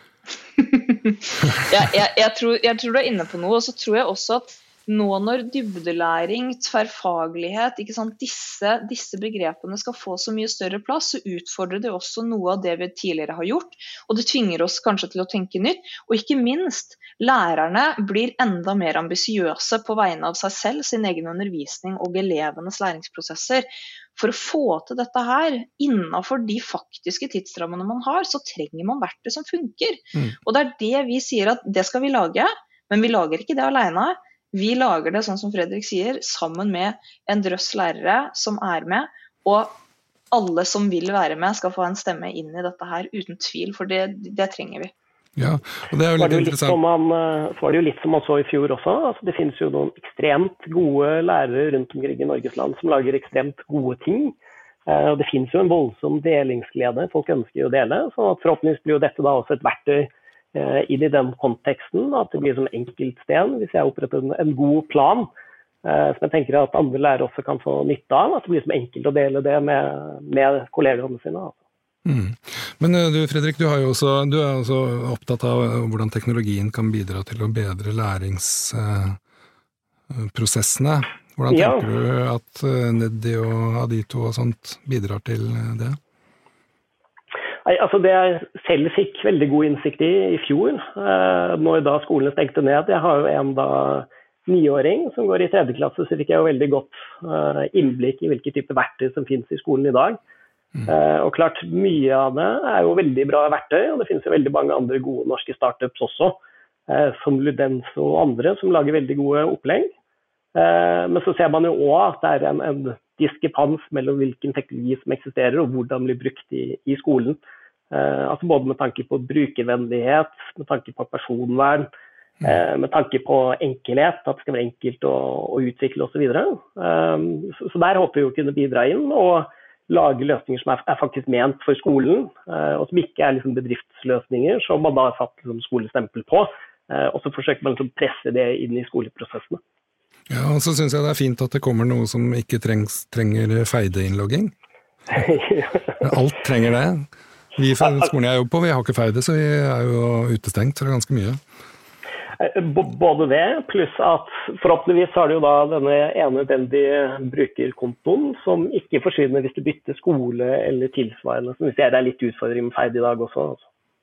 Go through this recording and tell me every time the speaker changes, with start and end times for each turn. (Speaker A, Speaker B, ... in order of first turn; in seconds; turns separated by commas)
Speaker A: 0.6-39.8, Speaker A: 40.3-44.9, Speaker B: 45.4-46.8, Speaker C: 46.2-54.4, Speaker C: 54.9-65.3, Speaker C: 65.8-71.6, Speaker B: 72.0-79.2, Speaker B: 80.1-86.0, Speaker C: 81.5-81.9, Speaker C: 87.7-100.2, Speaker C: 100.9-106.4, Speaker C: 106.9-109.9, Speaker C: 110.5-117.4, Speaker C: 117.9-121.9, Speaker C: 122.4-139.6, Speaker B: 140.3-144.5, Speaker C: 145.1-146.0, Speaker B: 146.0-151.4, Speaker C: 152.4-163.7